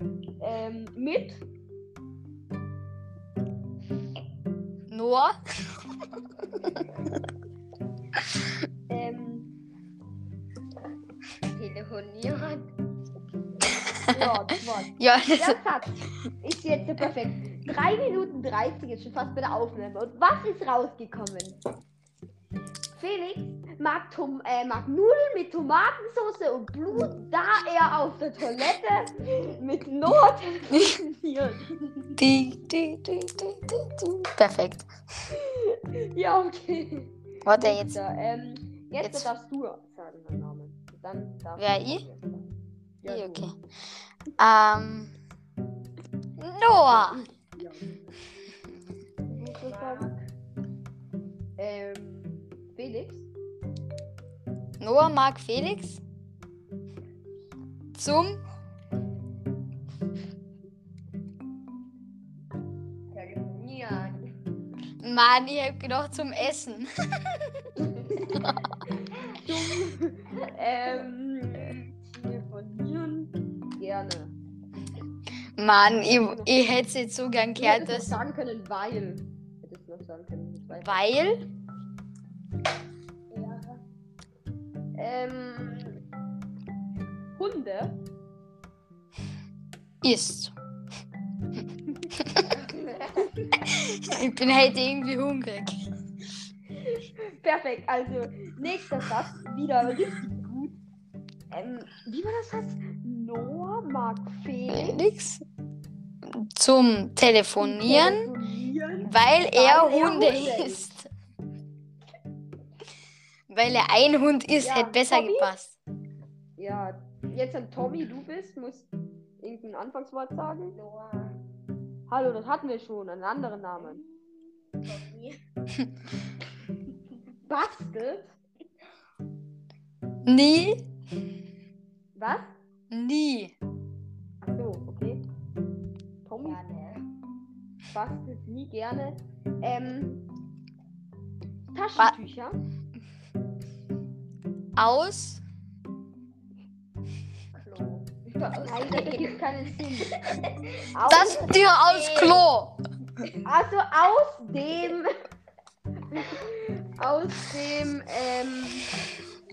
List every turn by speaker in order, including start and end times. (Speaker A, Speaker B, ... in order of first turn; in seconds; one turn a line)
Speaker A: 0.4-1.4
Speaker B: 4.9-5.3
Speaker A: 8.9-9.5
Speaker C: 11.5-12.6
Speaker A: 14.1-21.6
Speaker B: 15.0-15.6
Speaker A: 22.9-32.1
Speaker B: 32.2-34.9
Speaker A: 35.3-42.4
Speaker B: 37.4-38.0
Speaker B: 39.0-39.3
Speaker B: 41.6-42.0
Speaker A: 43.0-43.5
Speaker B: 43.1-43.5
Speaker B: 44.4-45.1
Speaker B: 46.4-47.2
Speaker A: 46.8-48.0
Speaker B: 48.7-48.9
Speaker A: 49.3-50.1
Speaker C: 49.5-50.3
Speaker A: 51.6-53.3
Speaker B: 54.8-56.0
Speaker B: 57.9-58.4
Speaker C: 63.1-64.2
Speaker B: 65.0-67.8
Speaker B: 68.3-68.6
Speaker A: 69.0-74.3
Speaker B: 75.6-78.2
Speaker A: 76.0-76.5
Speaker A: 77.6-81.0
Speaker B: 80.8-81.5
Speaker C: 83.3-83.8
Speaker A: 85.0-86.0
Speaker A: 87.3-88.0
Speaker B: 90.0-90.5
Speaker B: 92.1-92.5
Speaker C: 92.7-93.1
Speaker B: 93.7-95.8
Speaker A: 96.9-100.8
Speaker A: 101.5-105.0
Speaker B: 104.7-105.4
Speaker B: 106.4-108.3
Speaker A: 107.6-110.9
Speaker B: 109.0-111.1
Speaker B: 113.5-115.8
Speaker A: 114.6-115.5
Speaker A: 116.6-118.9
Speaker A: 119.4-120.7
Speaker C: 120.7-121.4
Speaker A: 122.1-124.0
Speaker C: 123.8-125.4
Speaker A: 127.5-128.3
Speaker B: 130.2-130.9
Speaker A: 132.1-132.5
Speaker B: 132.9-133.5
Speaker A: 134.4-135.2
Speaker A: 136.2-136.6
Speaker C: 136.4-137.1
Speaker A: 137.9-140.2
Speaker A: 141.7-142.6
Speaker B: 144.8-145.4
Speaker C: 147.5-149.4
Speaker A: 148.4-150.2
Speaker C: 150.1-152.5
Speaker A: 150.9-151.5
Speaker B: 151.1-152.8
Speaker A: 153.4-155.1
Speaker A: 156.1-158.9